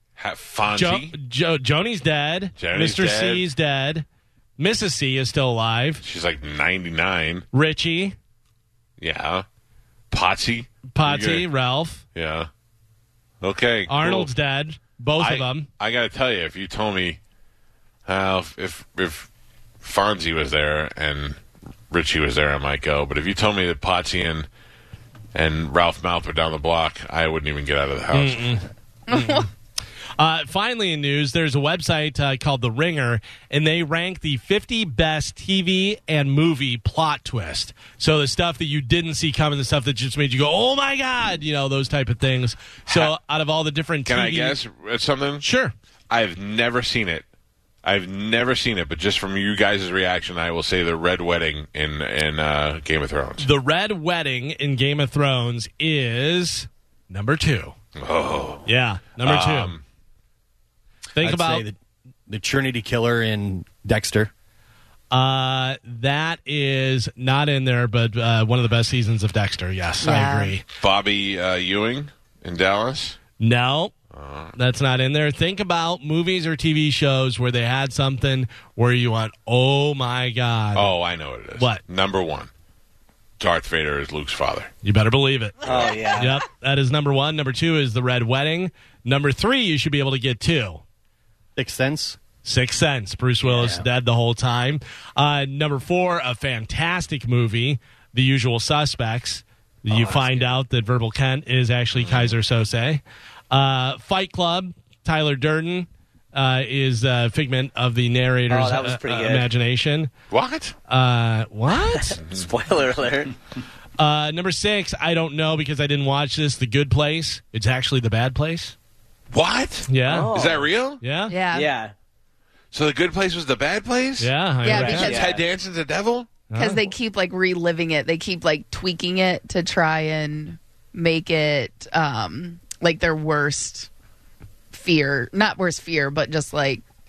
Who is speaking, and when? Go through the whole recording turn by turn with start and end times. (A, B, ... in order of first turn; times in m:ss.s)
0:00.2-0:01.1 A
0:00.7-0:04.0 B
0:02.6-0:03.4 A
0:04.6-0:06.0 B
0:06.0-0:07.4 A
0:07.5-0:08.2 B
0:09.0-0:09.4 A
0:10.1-0:11.5 A
0:11.0-0:12.0 B
0:12.1-0:12.5 A
0:13.4-0:14.3 A
0:13.9-0:15.7 B
0:15.2-0:17.2 A
0:18.1-0:19.3 A
0:19.8-0:21.4 A
0:21.9-0:24.5 A
0:25.3-0:28.5 A
0:28.1-0:29.5 B
0:29.1-0:29.4 C
0:30.2-0:44.6 B
0:44.0-0:45.4 A
0:45.4-0:45.7 B
0:46.1-0:47.2 A
0:47.8-0:53.5 A
0:53.4-0:57.7 B
0:58.0-0:58.7 A
0:58.7-0:59.7 B
0:59.2-0:59.8 A
1:01.2-1:01.7 B
1:01.2-1:01.8 D
1:02.3-1:04.3 D
1:05.1-1:10.6 B
1:10.0-1:10.6 C
1:10.8-1:13.2 A
1:13.4-1:13.9 B
1:14.1-1:14.6 A
1:14.6-1:20.9 B
1:20.7-1:22.5 A
1:23.4-1:24.7 A
1:24.8-1:30.8 B
1:25.6-1:26.4 E
1:25.7-1:26.0 A
1:31.6-1:32.2 D
1:32.4-1:50.1 B
1:33.4-1:33.8 E
1:39.9-1:40.4 E
1:48.5-1:49.5 E
1:50.3-1:50.7 A
1:50.9-1:52.2 B
1:51.8-1:53.3 E
1:54.0-1:58.7 B
1:59.3-2:01.0 A
1:59.9-2:00.3 B
2:00.0-2:00.7 E
2:01.0-2:01.4 B
2:01.3-2:01.7 C
2:01.5-2:01.9 E
2:02.7-2:04.3 A
2:04.2-2:05.2 B
2:04.6-2:05.2 C
2:04.7-2:05.4 E
2:04.9-2:06.3 A
2:06.5-2:06.8 B
2:06.5-2:13.9 C
2:14.7-2:16.8 C